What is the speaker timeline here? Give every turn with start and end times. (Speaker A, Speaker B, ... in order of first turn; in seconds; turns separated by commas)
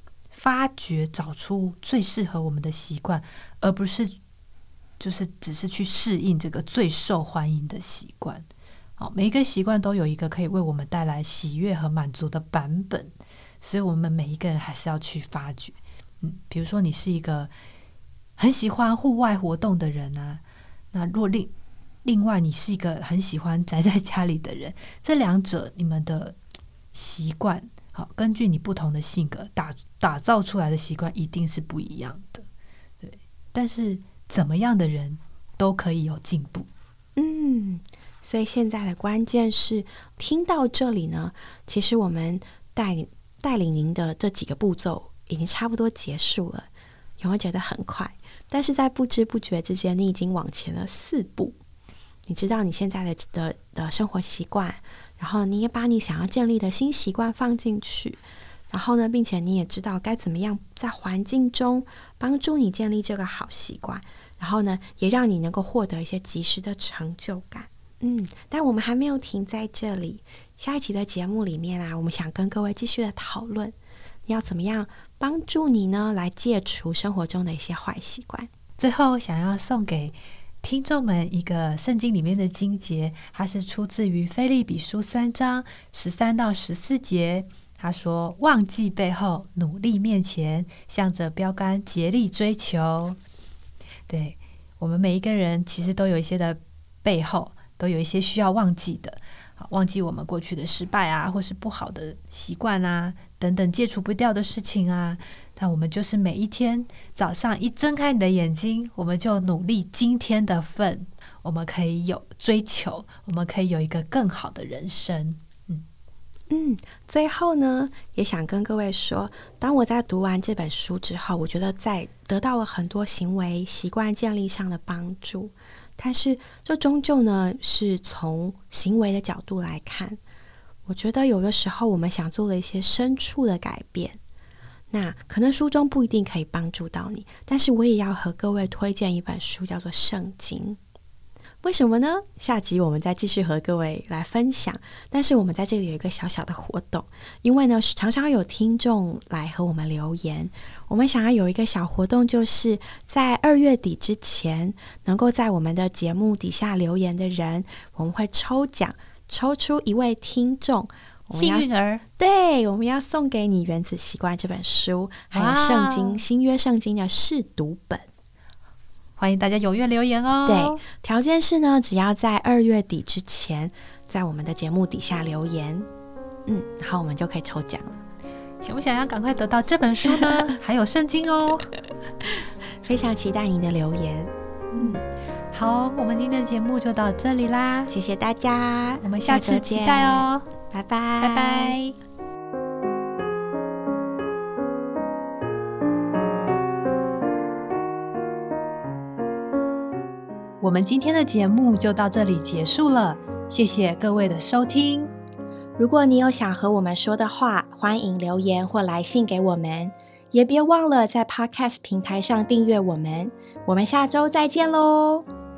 Speaker A: 0.3-4.1, Speaker A: 5.0-8.4, Speaker A: 9.0-17.5, Speaker A: 18.4-21.5, Speaker A: 22.0-26.4, Speaker A: 26.9-32.5, Speaker A: 33.0-36.7, Speaker B: 37.1-46.7, Speaker B: 47.2-51.6, Speaker B: 52.3-73.7, Speaker B: 74.3-78.5, Speaker A: 78.8-93.2, Speaker A: 94.1-115.8, Speaker B: 116.5-130.2, Speaker B: 130.8-134.2, Speaker B: 134.9-140.8, Speaker B: 141.6-168.1, Speaker A: 161.3-162.0, Speaker A: 165.3-166.2, Speaker A: 169.2-170.8, Speaker B: 170.4-175.9, Speaker B: 176.5-178.0, Speaker A: 178.6-181.7, Speaker B: 182.2-184.3, Speaker A: 184.7-187.9, Speaker B: 187.9-191.8, Speaker A: 189.0-190.5, Speaker A: 191.2-192.0, Speaker A: 200.6-205.1, Speaker B: 205.8-215.3